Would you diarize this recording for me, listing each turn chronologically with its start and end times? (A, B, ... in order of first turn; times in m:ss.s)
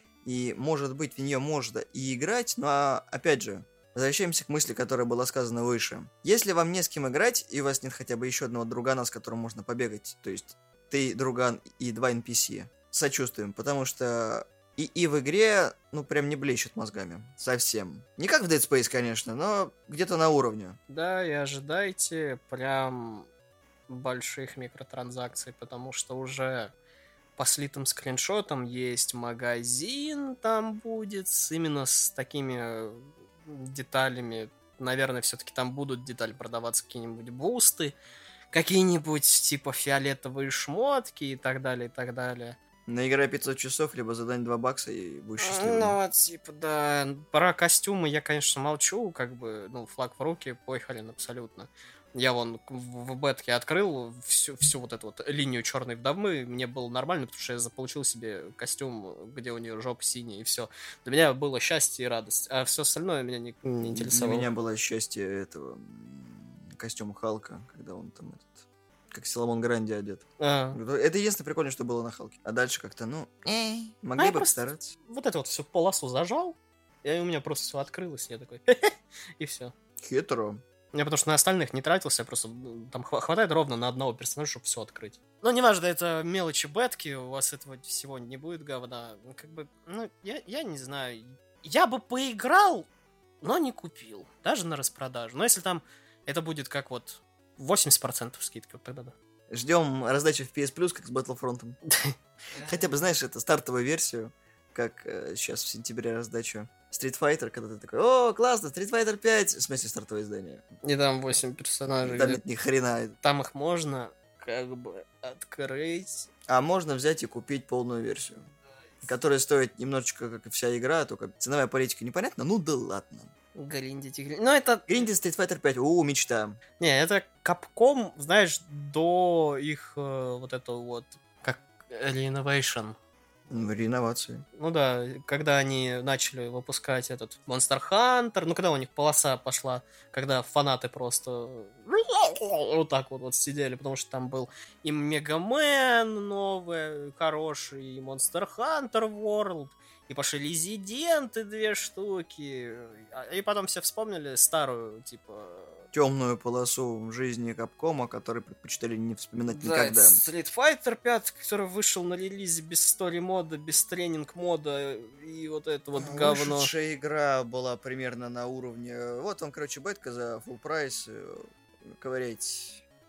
0:00.2-0:20.8 A
0:20.9-0:23.3 B
0:23.9-0:26.7 B
0:27.4-0:38.0 B
0:38.5-0:42.6 B
0:42.9-0:46.0 A
0:45.4-1:04.5 B
1:03.9-1:14.9 A
1:10.4-1:10.8 B
1:14.2-1:19.7 B
1:20.0-1:20.6 A
1:20.9-1:32.9 B
1:33.4-1:39.1 B
1:39.5-1:41.8 A
1:41.9-1:42.1 B
1:42.6-1:50.6 A
1:50.8-1:52.4 B
1:52.0-1:53.2 A
1:53.2-1:56.3 B
1:56.5-1:58.5 A
1:59.0-2:03.3 A
2:03.5-2:04.9 B
2:04.9-2:06.6 A
2:06.8-2:13.0 B
2:13.5-2:14.4 A
2:14.6-2:35.8 B
2:35.9-2:40.2 A
2:39.5-2:46.7 B
2:46.0-2:52.8 A